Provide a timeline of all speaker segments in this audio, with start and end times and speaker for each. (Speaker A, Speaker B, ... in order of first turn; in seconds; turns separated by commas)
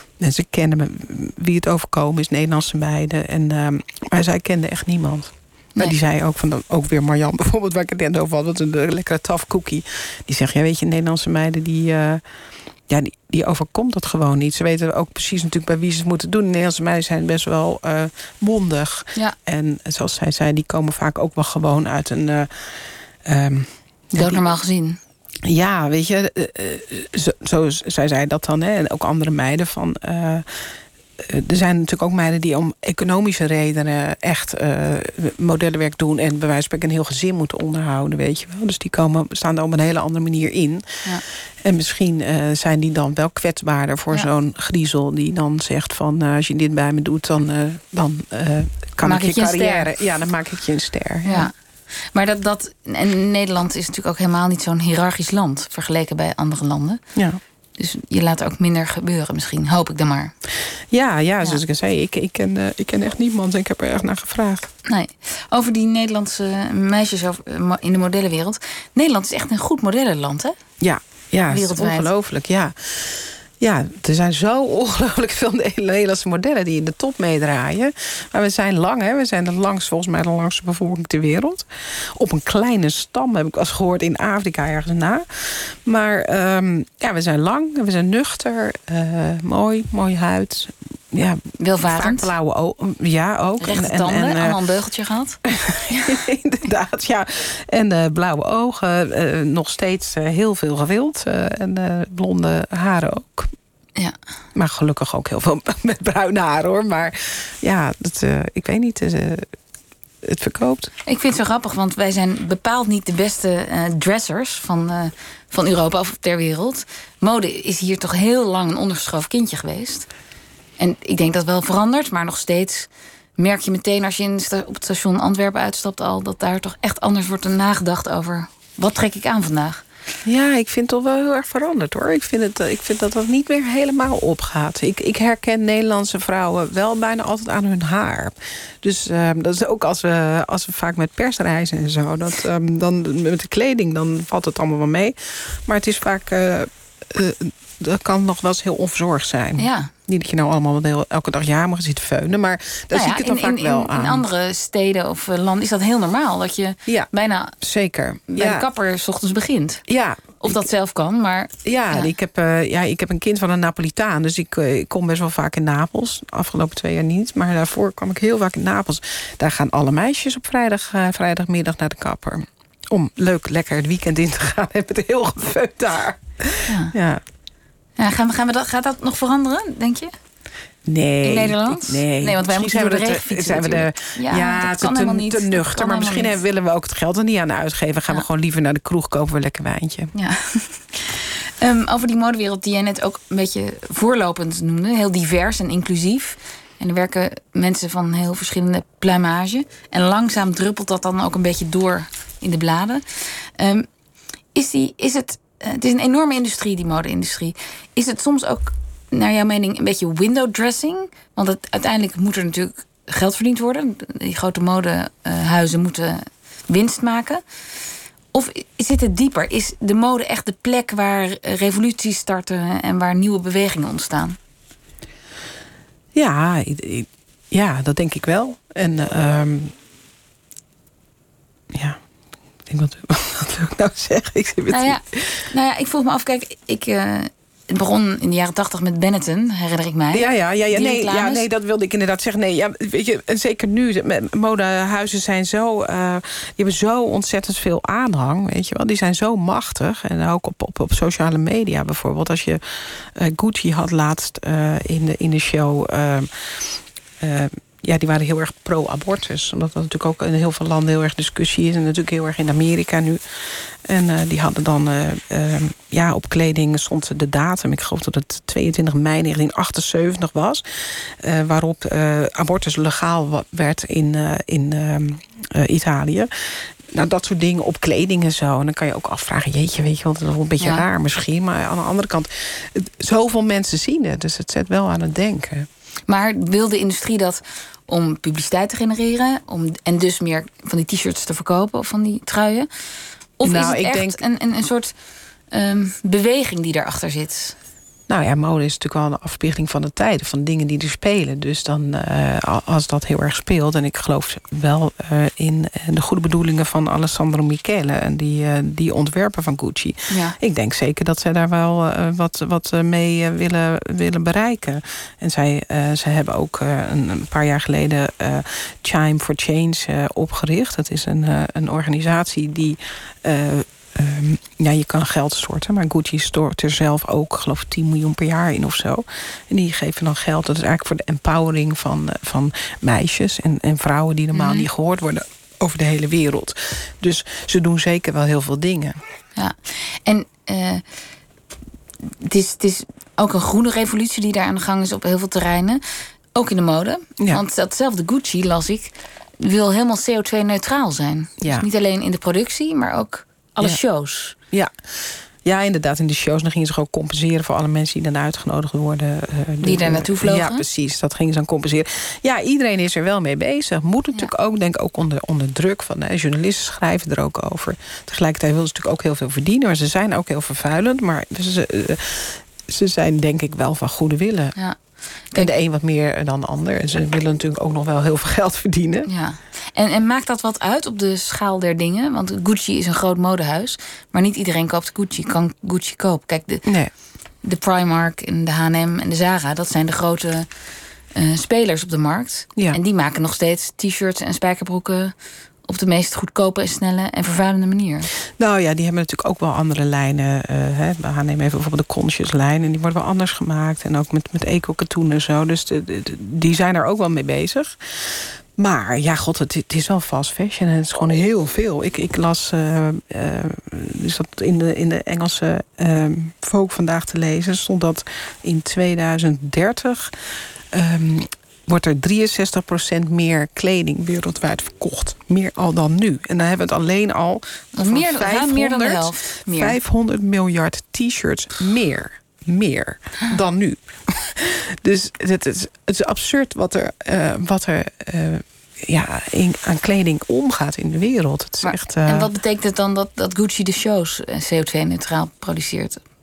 Speaker A: 0.2-12.2, Speaker A: 12.9-24.4, Speaker B: 24.2-25.0, Speaker A: 25.4-30.7, Speaker A: 31.2-41.0, Speaker A: 41.6-51.5, Speaker B: 49.0-49.9, Speaker B: 51.2-51.5, Speaker B: 52.1-57.0, Speaker A: 57.1-57.4, Speaker B: 57.8-60.3, Speaker A: 60.9-64.7, Speaker B: 64.8-70.6, Speaker A: 70.8-94.6, Speaker B: 71.5-72.1, Speaker B: 91.6-92.3, Speaker B: 93.6-96.2, Speaker A: 95.5-103.5, Speaker A: 104.5-109.5, Speaker A: 110.2-110.9, Speaker B: 111.0-120.1, Speaker B: 120.8-129.8, Speaker A: 130.2-154.2, Speaker B: 149.6-149.9, Speaker B: 152.9-157.6, Speaker A: 157.6-158.7, Speaker B: 158.3-159.8, Speaker A: 159.9-160.6, Speaker B: 160.4-162.1, Speaker A: 161.6-177.2, Speaker B: 176.7-176.9, Speaker B: 178.0-180.1, Speaker A: 180.8-190.1, Speaker B: 181.2-186.3, Speaker B: 190.1-203.9, Speaker B: 204.5-217.4, Speaker B: 218.3-224.4, Speaker A: 226.1-229.7, Speaker A: 231.7-232.0, Speaker A: 232.7-235.4, Speaker B: 234.7-241.4, Speaker A: 240.1-263.2, Speaker A: 263.8-285.7, Speaker B: 286.1-292.7, Speaker B: 293.4-294.9, Speaker A: 293.4-294.2, Speaker B: 295.5-297.6, Speaker A: 298.1-339.0, Speaker B: 310.1-310.4, Speaker B: 334.3-334.6, Speaker B: 339.4-340.8, Speaker B: 342.1-345.8, Speaker B: 346.3-354.4, Speaker A: 351.4-351.6, Speaker A: 354.5-374.6, Speaker B: 359.6-360.6, Speaker A: 375.3-379.1, Speaker B: 379.1-386.6, Speaker A: 386.6-386.9, Speaker B: 387.4-390.5, Speaker B: 391.1-395.1, Speaker B: 395.7-398.1, Speaker A: 398.4-420.2, Speaker A: 420.7-442.3, Speaker B: 427.7-429.8, Speaker B: 441.6-446.0